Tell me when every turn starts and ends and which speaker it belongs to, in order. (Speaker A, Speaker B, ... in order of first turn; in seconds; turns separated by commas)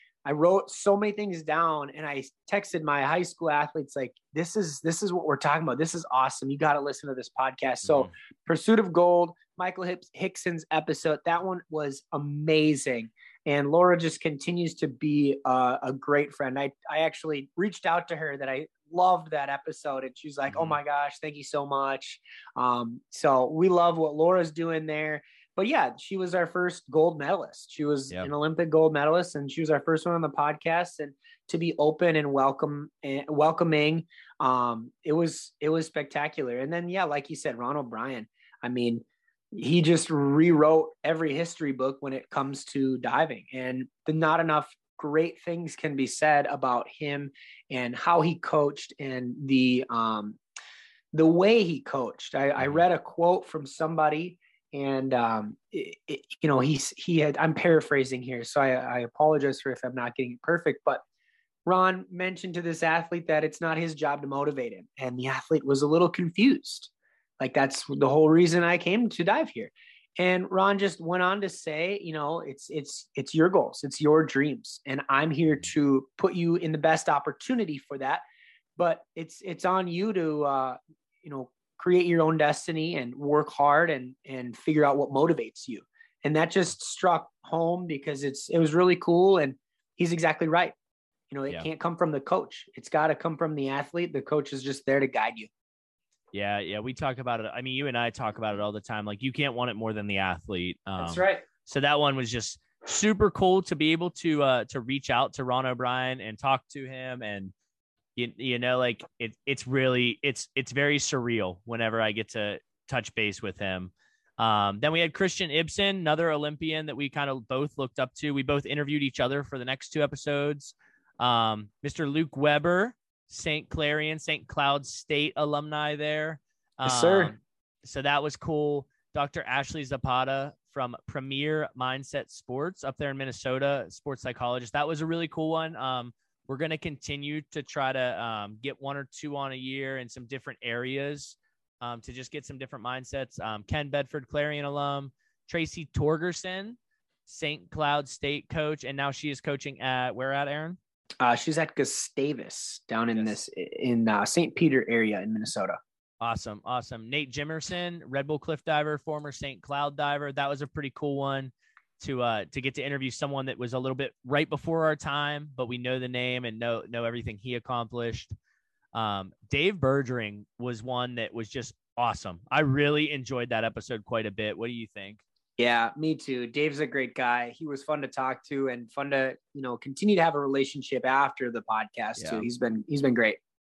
Speaker A: 0.2-50.4, Speaker B: 20.5-20.8, Speaker A: 51.1-61.0, Speaker A: 61.6-78.2, Speaker A: 78.8-90.7, Speaker A: 91.3-95.5, Speaker B: 96.3-107.5, Speaker A: 101.0-101.4, Speaker B: 108.2-150.8, Speaker A: 126.8-127.3, Speaker A: 151.2-155.8, Speaker B: 156.2-168.3, Speaker B: 168.9-175.2, Speaker A: 175.6-183.4, Speaker B: 182.2-182.5